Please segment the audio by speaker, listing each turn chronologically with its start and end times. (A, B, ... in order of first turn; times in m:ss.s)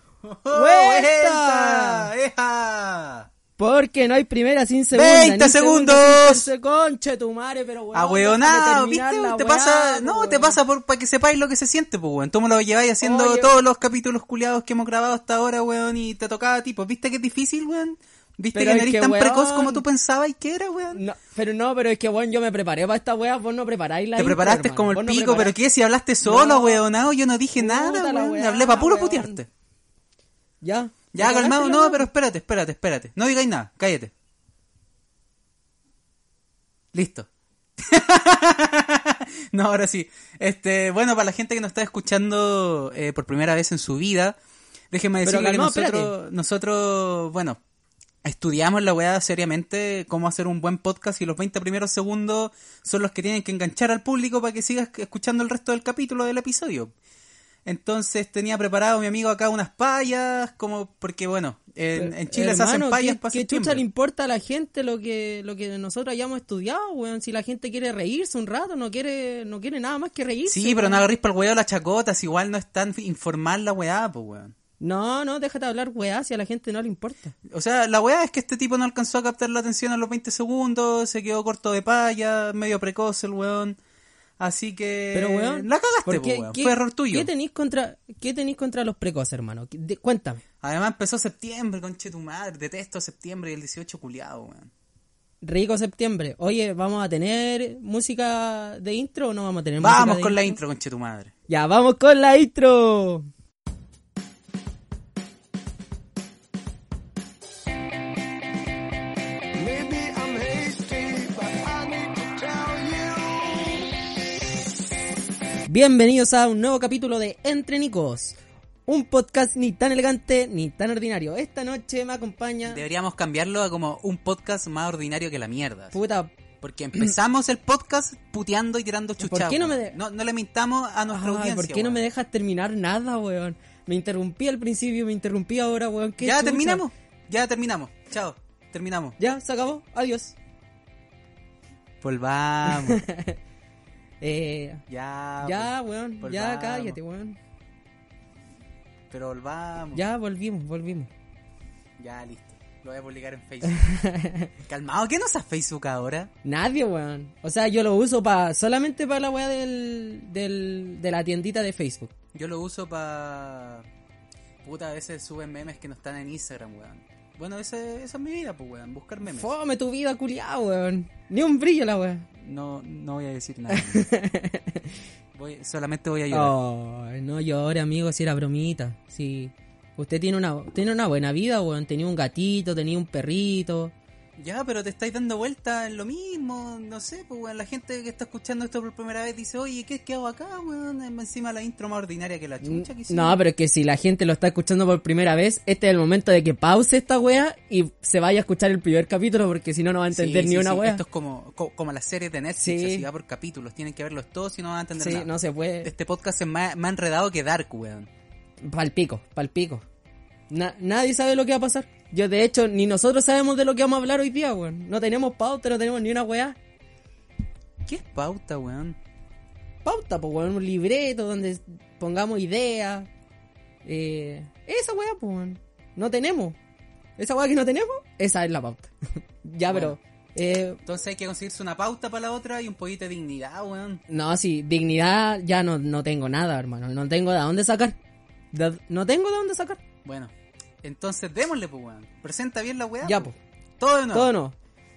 0:00.2-0:03.3 A
0:00.5-0:02.1 B
0:03.6-0:10.6 B
0:04.9-0:06.5 A
0:07.9-0:21.0 A
0:13.0-0:13.6 B
0:18.5-0:19.8 B
0:20.9-0:25.6 B
0:24.2-0:29.5 A
0:26.2-0:26.8 B
0:27.6-0:29.4 B
0:30.6-0:32.1 B
0:31.1-0:34.1 A
0:36.9-0:44.4 A
0:44.9-0:47.6 A
0:45.2-0:46.1 B
0:48.2-0:56.9 A
0:57.6-1:03.8 A
1:02.0-1:11.1 B
1:10.5-1:14.6 A
1:14.8-1:17.4 B
1:17.5-1:23.8 A
1:24.4-1:27.3 A
1:25.1-1:30.4 B
1:30.6-1:34.7 A
1:35.4-1:40.6 B
1:39.8-1:41.3 A
1:41.5-1:43.3 B
1:49.6-1:53.9 C
1:55.7-2:02.8 B
2:02.7-2:06.0 A
2:05.9-2:06.3 B
2:06.6-2:12.0 A
2:09.2-2:10.0 B
2:11.1-2:16.8 B
2:16.2-2:19.2 A
2:19.2-2:20.4 B
2:22.0-2:23.0 A
2:22.7-2:23.4 B
2:24.2-2:24.8 B
2:24.9-2:27.0 A
2:25.4-2:27.4 B
2:29.1-2:30.0 A
2:29.9-2:31.1 B
2:32.0-2:33.9 A
2:33.6-2:34.5 B
2:34.7-2:36.3 A
2:36.4-2:42.1 B
2:42.3-2:43.9 A
2:44.6-2:49.5 A
2:49.2-2:52.3 B
2:52.4-2:54.1 A
2:53.7-2:54.9 B
2:55.3-2:56.6 A
2:56.3-3:03.9 B
3:04.4-3:13.4 A
3:12.6-3:21.0 B
3:20.1-3:25.3 A
3:22.6-3:23.1 B
3:25.0-3:25.9 B
3:25.8-3:28.1 A
3:28.6-3:29.8 B
3:30.5-3:36.6 B
3:37.8-3:39.0 A
3:39.8-3:43.1 B
3:43.8-3:46.6 B
3:47.2-3:48.9 B
3:49.4-3:50.8 B
3:49.7-3:50.0 A
3:50.8-3:54.0 A
3:54.1-3:58.0 B
3:58.5-3:59.8 B
4:00.0-4:04.3 A
4:03.0-4:03.4 B
4:04.1-4:04.6 B